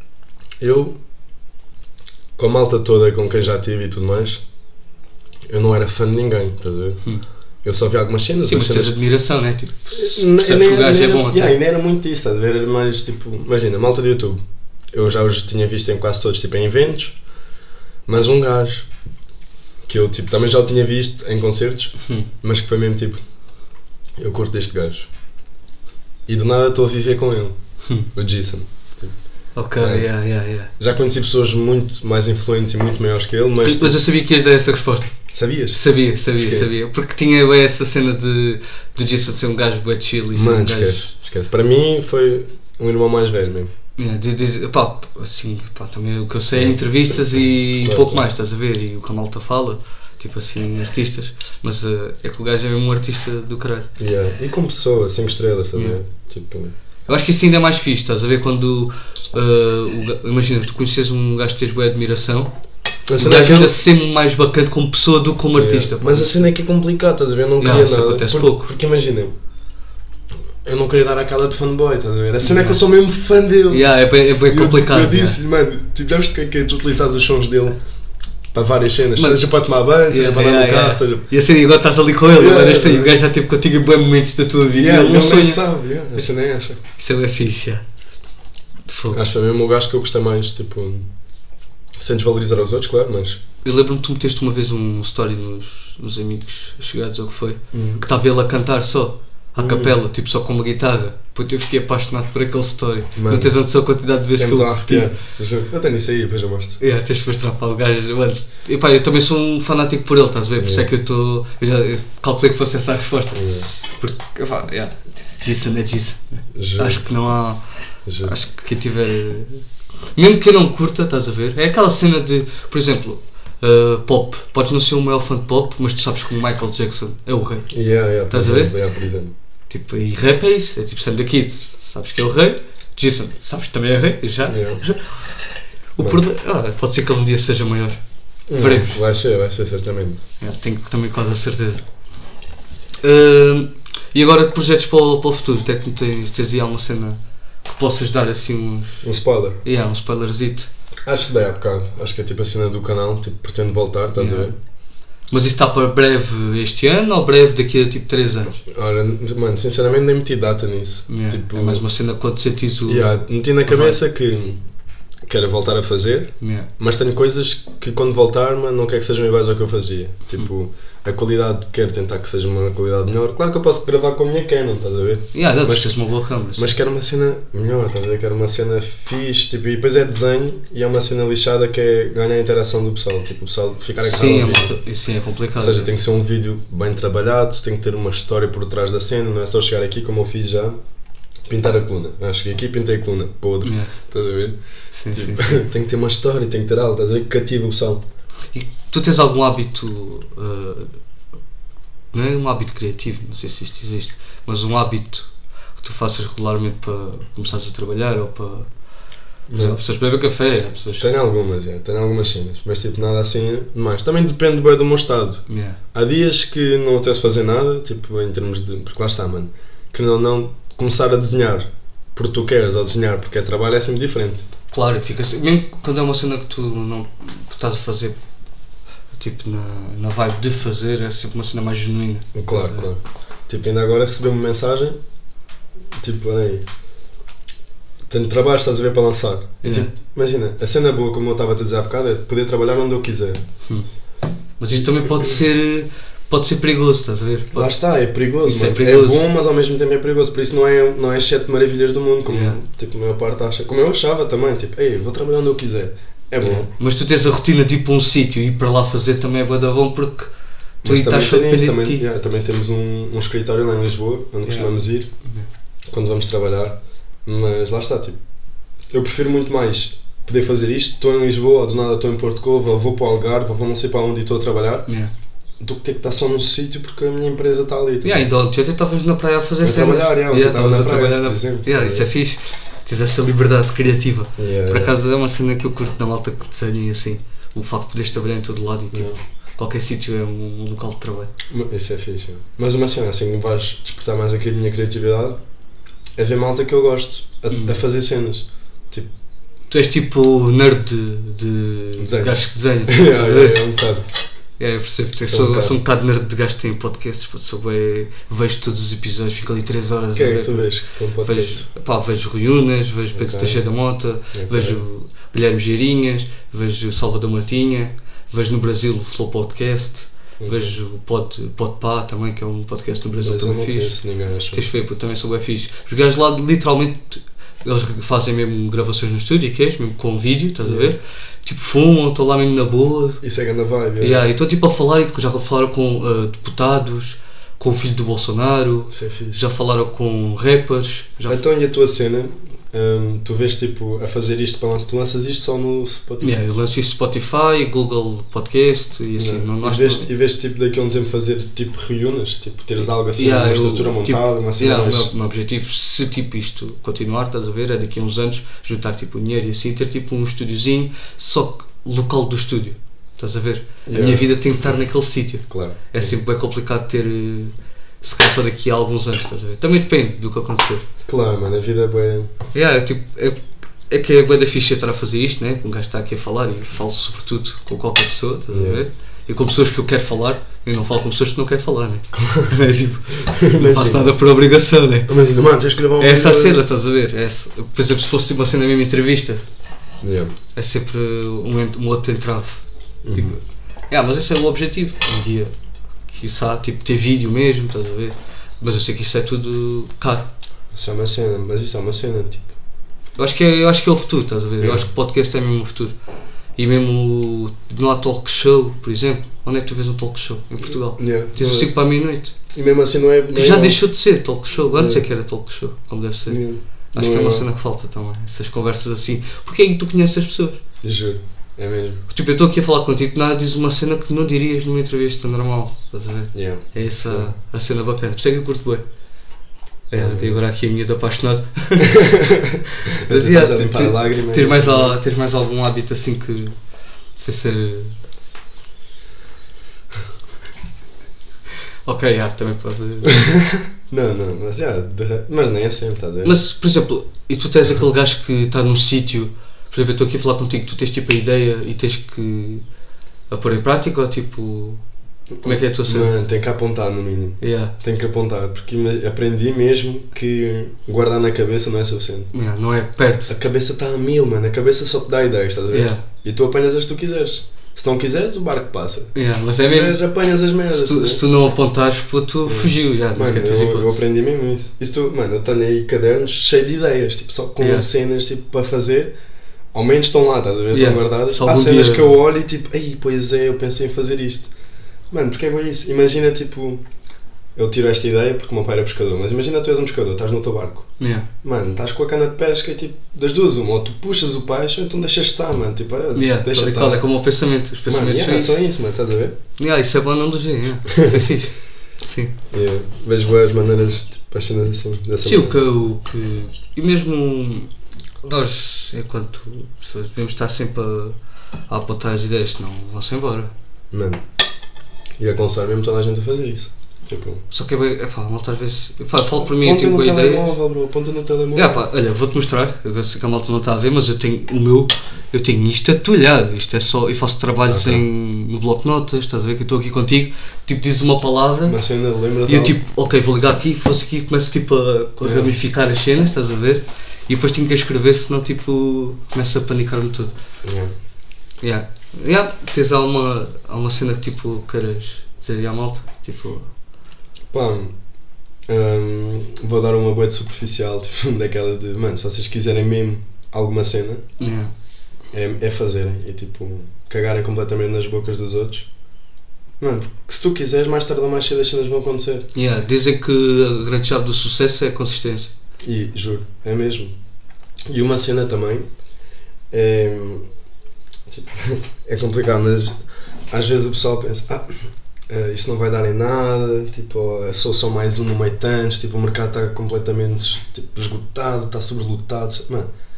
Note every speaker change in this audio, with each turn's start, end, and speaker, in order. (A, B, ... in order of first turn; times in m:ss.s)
0:00.6-0:01.0 A
0:02.4-0:04.4 A
0:05.5-0:07.0 A
0:07.6-0:08.9 A
0:08.5-0:11.6 B
0:09.9-0:14.4 A
0:14.9-0:17.2 A
0:18.1-0:18.9 A
0:19.8-0:23.2 A
0:24.2-0:25.1 A
0:26.3-0:27.6 A
0:28.1-0:29.1 A
0:29.6-0:30.7 B
0:29.8-0:30.1 A
0:30.8-0:34.0 A
0:33.6-0:35.1 B
0:35.3-0:35.8 A
0:35.7-0:41.1 B
0:36.3-0:36.7 A
0:40.3-0:43.7 A
0:44.0-0:53.9 B
0:47.8-0:48.2 A
0:54.0-0:56.7 A
0:57.1-1:02.5 B
1:03.1-1:03.8 A
1:03.2-1:06.5 B
1:05.5-1:09.3 A
1:07.6-1:08.7 B
1:10.6-1:13.9 A
1:12.4-1:12.8 B
1:13.7-1:15.4 B
1:14.4-1:17.8 A
1:18.5-1:21.2 A
1:19.1-1:19.4 B
1:20.1-1:25.6 B
1:22.3-1:23.2 A
1:24.7-1:26.8 A
1:27.0-1:27.8 B
1:28.9-1:29.2 B
1:29.1-1:31.1 A
1:32.0-1:33.4 A
1:33.6-1:45.1 B
1:37.7-1:38.0 A
1:39.6-1:40.0 A
1:43.1-1:43.5 A
1:44.4-1:46.8 A
1:46.8-1:57.6 B
1:50.6-1:50.8 A
1:53.3-1:53.7 A
1:56.6-1:57.0 A
1:58.0-1:58.3 A
1:58.2-2:07.7 B
2:07.7-2:09.3 A
2:08.3-2:08.7 B
2:09.7-2:15.4 B
2:14.5-2:14.8 A
2:16.0-2:18.0 B
2:18.5-2:20.2 A
2:18.5-2:19.0 B
2:20.4-2:21.8 B
2:23.0-2:29.0 B
2:29.0-2:29.6 A
2:29.6-2:30.7 B
2:31.0-2:34.6 A
2:34.2-2:34.5 B
2:35.3-2:38.6 B
2:38.7-2:41.8 A
2:41.1-2:44.0 B
2:42.8-2:44.6 A
2:45.3-2:55.9 A
2:46.4-2:46.7 B
2:55.3-2:56.7 B
2:56.6-3:04.8 A
3:04.0-3:05.9 B
3:05.6-3:10.8 A
3:11.5-3:14.6 A
3:13.6-3:13.9 B
3:14.9-3:15.6 B
3:15.1-3:18.0 A
3:18.5-3:21.0 B
3:22.1-3:28.7 B
3:29.5-3:29.8 A
3:29.6-3:31.1 B
3:31.0-3:44.5 A
3:35.5-3:35.8 B
3:44.7-3:48.2 B
3:49.1-3:52.9 B
3:52.3-3:55.0 A
3:55.9-3:56.6 A
3:58.1-4:03.4 A
3:59.6-3:59.9 B
4:04.6-4:07.7 B
4:05.0-4:05.4 A
4:07.5-4:16.7 A
4:08.4-4:09.2 B
4:12.2-4:12.6 B
4:16.4-4:20.3 B
4:20.8-4:25.1 A
4:20.8-4:22.0 B
4:24.4-4:24.7 B
4:25.9-4:28.2 A
4:28.9-4:34.9 A
4:35.6-4:38.3 A
4:38.0-4:51.3 B
4:39.6-4:42.1 A
4:44.4-4:45.0 A
4:48.9-4:49.2 A
4:51.5-4:55.4 A
4:56.2-4:59.1 A
4:57.5-4:57.8 B
4:59.7-5:03.6 B
5:02.0-5:04.0 A
5:04.6-5:10.7 B
5:05.2-5:05.8 A
5:10.1-5:11.6 A
5:11.2-5:24.0 B
5:13.1-5:13.6 A
5:14.3-5:14.8 A
5:20.4-5:20.8 A
5:23.2-5:24.6 A
5:24.5-5:33.2 B
5:30.6-5:30.9 A
5:33.2-5:34.2 A
5:34.0-5:41.4 B
5:38.9-5:39.4 A
5:41.3-5:46.4 A
5:46.2-5:50.1 B
5:49.2-5:55.1 A
5:53.2-6:10.8 B
6:03.8-6:04.3 A
6:05.5-6:06.2 A
6:11.0-6:12.3 A
6:12.5-6:13.4 B
6:13.9-6:25.1 B
6:18.5-6:18.8 A
6:22.1-6:22.5 A
6:23.3-6:24.1 A
6:25.1-6:26.6 A
6:26.0-6:29.4 B
6:30.0-6:30.3 A
6:30.5-6:32.6 B
6:33.0-6:33.4 A
6:33.1-6:33.4 B
6:33.9-6:35.5 B
6:36.1-6:40.3 B
6:40.7-6:42.5 A
6:43.2-6:45.9 B
6:44.6-6:44.9 A
6:46.6-6:52.3 B
6:51.0-6:51.7 A
6:52.5-6:53.8 A
6:53.3-6:56.4 B
6:54.7-6:55.0 A
6:56.3-6:57.4 A
6:56.9-7:00.6 B
7:00.8-7:02.0 A
7:02.1-7:08.8 B
7:06.3-7:07.3 A
7:09.9-7:16.5 B
7:10.0-7:10.4 A
7:11.8-7:15.0 A
7:17.2-7:18.0 B
7:21.8-7:23.3 B
7:23.0-7:26.4 A
7:26.2-7:32.6 B
7:33.3-7:34.8 B
7:35.3-7:42.3 A
7:35.4-7:36.1 B
7:37.4-7:37.7 B
7:42.3-7:43.3 B
7:43.3-7:51.2 A
7:45.7-7:46.0 B
7:49.1-7:50.0 B
7:50.7-7:54.0 B
7:52.4-7:59.1 A
7:57.6-7:57.8 B
7:59.7-8:04.5 A
8:00.7-8:02.1 B
8:05.1-8:06.8 A
8:07.6-8:10.9 A
8:11.0-8:11.3 B
8:11.4-8:17.0 A
8:16.1-8:18.6 B
8:17.9-8:19.4 A
8:19.6-8:22.3 B
8:20.9-8:21.3 A
8:22.5-8:25.6 A
8:25.2-8:27.7 B
8:28.2-8:31.2 B
8:31.7-8:33.5 B
8:33.9-8:34.2 A
8:35.2-8:37.4 A
8:37.5-8:40.6 B
8:39.4-8:41.8 A
8:41.5-8:51.8 B
8:47.7-8:48.0 A
8:51.7-8:52.8 A
8:52.5-9:00.3 B
8:55.2-8:55.6 A
9:00.6-9:00.9 A
9:01.6-9:06.7 B
9:07.5-9:07.9 A
9:08.7-9:14.2 A
9:14.4-9:14.7 B
9:15.3-9:18.9 A
9:19.8-9:22.5 A
9:22.5-9:25.5 B
9:25.8-9:27.1 A
9:27.9-9:28.8 A
9:29.7-9:30.5 A
9:31.3-9:32.9 A
9:33.5-9:42.9 A